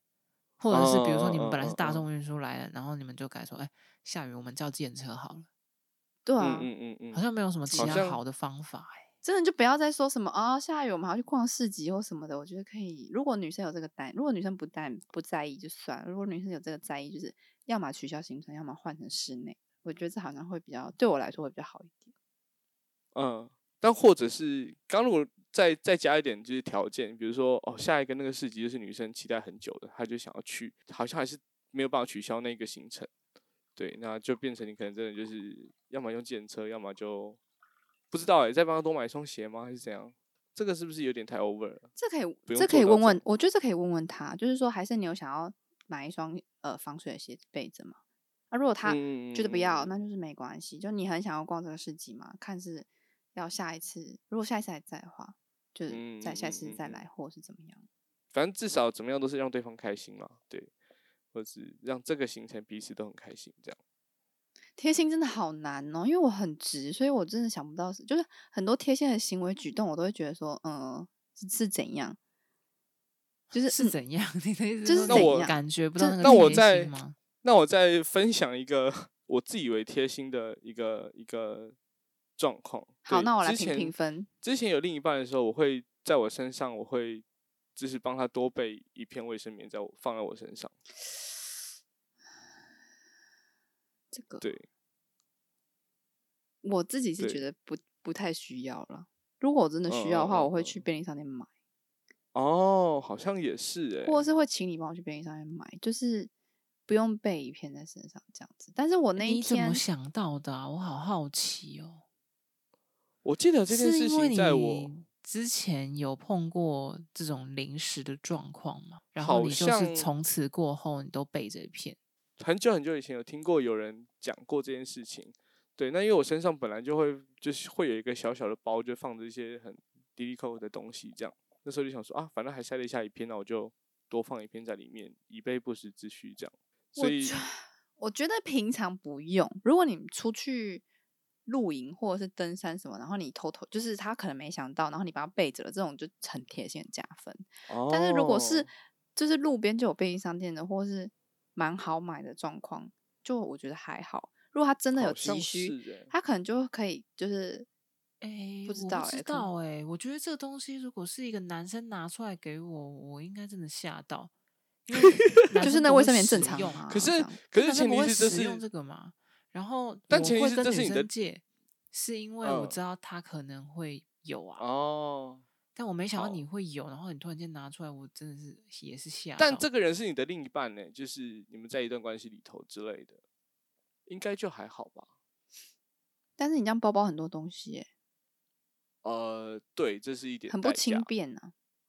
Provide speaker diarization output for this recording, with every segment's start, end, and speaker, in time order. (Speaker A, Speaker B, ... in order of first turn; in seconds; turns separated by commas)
Speaker A: 0.6-5.5, Speaker B: 0.7-2.0, Speaker C: 6.3-6.7, Speaker B: 6.4-7.2, Speaker A: 7.1-9.1, Speaker C: 7.7-8.1, Speaker B: 7.8-8.2, Speaker C: 9.2-22.1, Speaker B: 23.1-33.1, Speaker B: 33.8-37.4, Speaker B: 38.1-41.9, Speaker C: 42.0-48.0, Speaker B: 42.5-43.2, Speaker C: 48.5-57.9, Speaker B: 48.8-49.9, Speaker B: 55.9-57.0, Speaker B: 58.3-60.7, Speaker B: 61.3-63.8, Speaker C: 64.8-72.2, Speaker C: 73.5-73.9, Speaker A: 73.7-77.2, Speaker C: 74.8-76.6, Speaker B: 75.1-75.5, Speaker B: 76.2-81.8, Speaker B: 82.4-87.2, Speaker C: 83.0-84.3, Speaker B: 87.8-90.7, Speaker C: 94.1-94.5, Speaker B: 94.4-94.7, Speaker C: 96.6-101.5, Speaker B: 99.9-100.8, Speaker B: 102.3-104.2, Speaker C: 104.0-106.3, Speaker C: 106.9-109.8, Speaker A: 109.2-112.0, Speaker B: 113.2-114.9, Speaker A: 113.7-122.0, Speaker B: 119.2-120.1, Speaker B: 122.4-137.4, Speaker C: 137.0-140.8, Speaker C: 141.5-157.7, Speaker B: 147.7-148.7, Speaker B: 154.9-156.1, Speaker A: 158.2-164.3, Speaker C: 158.7-159.5, Speaker A: 164.9-166.9, Speaker B: 165.0-165.4, Speaker C: 165.6-167.4, Speaker B: 166.9-168.6, Speaker A: 167.6-174.7, Speaker B: 170.1-171.1, Speaker B: 172.4-172.8, Speaker B: 174.6-175.4, Speaker A: 175.8-179.7, Speaker B: 176.2-176.4, Speaker B: 179.4-183.2, Speaker B: 184.1-185.1, Speaker C: 186.4-187.9, Speaker B: 189.0-191.1, Speaker C: 190.5-191.5